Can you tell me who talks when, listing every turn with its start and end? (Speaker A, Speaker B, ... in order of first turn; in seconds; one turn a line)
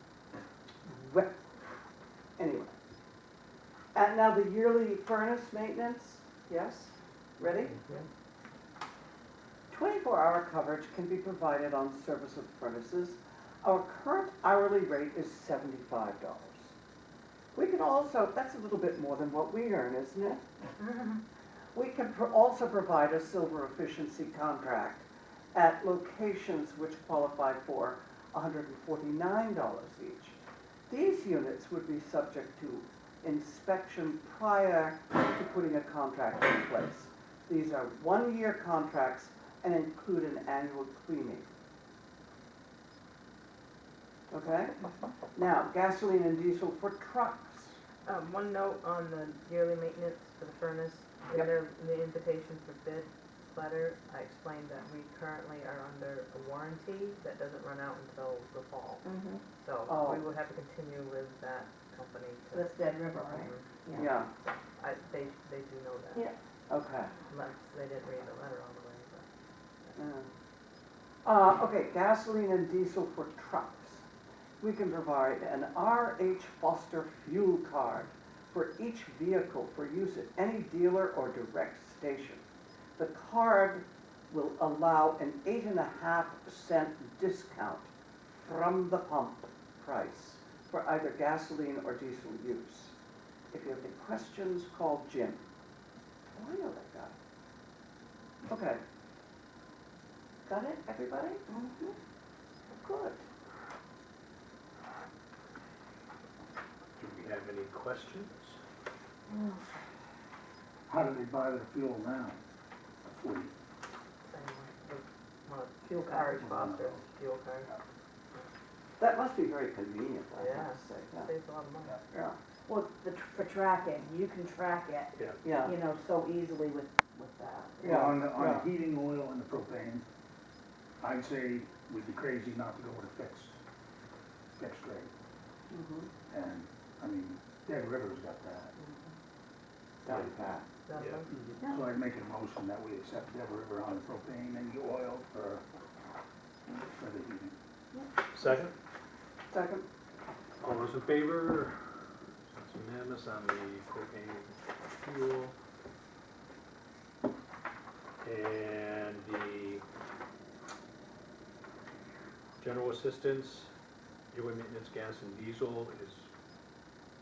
Speaker A: 0.9-1.4
Speaker A: 2.4-2.7
Speaker A: 3.9-7.8
Speaker B: 7.7-8.1
Speaker A: 9.7-16.7
Speaker A: 17.5-20.4
Speaker A: 21.7-30.4
Speaker A: 30.9-41.5
Speaker A: 44.3-44.8
Speaker A: 45.3-47.8
Speaker B: 48.0-63.8
Speaker C: 59.0-59.5
Speaker A: 59.9-60.2
Speaker C: 62.5-64.1
Speaker A: 63.9-64.3
Speaker B: 64.4-66.3
Speaker A: 66.7-67.1
Speaker B: 67.3-69.2
Speaker A: 70.0-70.3
Speaker A: 71.2-74.0
Speaker A: 74.6-82.4
Speaker A: 83.0-92.9
Speaker A: 93.5-95.4
Speaker A: 96.3-97.2
Speaker A: 98.5-98.8
Speaker A: 100.5-101.5
Speaker C: 101.5-102.0
Speaker A: 102.7-103.2
Speaker D: 107.0-108.6
Speaker C: 109.3-109.6
Speaker E: 110.9-112.4
Speaker E: 113.1-113.5
Speaker B: 114.3-117.8
Speaker C: 115.8-116.5
Speaker E: 116.3-117.0
Speaker A: 119.0-121.3
Speaker B: 120.3-122.1
Speaker A: 122.1-122.4
Speaker C: 122.7-128.1
Speaker A: 125.4-125.7
Speaker A: 127.8-128.7
Speaker E: 127.8-130.1
Speaker E: 131.0-133.6
Speaker E: 134.6-135.1
Speaker A: 135.7-136.1
Speaker E: 136.3-138.7
Speaker A: 140.0-140.7
Speaker D: 140.1-140.3
Speaker B: 140.8-141.3
Speaker D: 140.9-141.3
Speaker C: 141.6-141.8
Speaker E: 141.6-145.7
Speaker E: 146.8-147.6
Speaker D: 148.3-148.7
Speaker A: 149.5-149.9
Speaker D: 150.6-151.8
Speaker D: 152.5-155.5
Speaker D: 158.2-159.8
Speaker D: 162.6-163.7
Speaker D: 164.3-166.3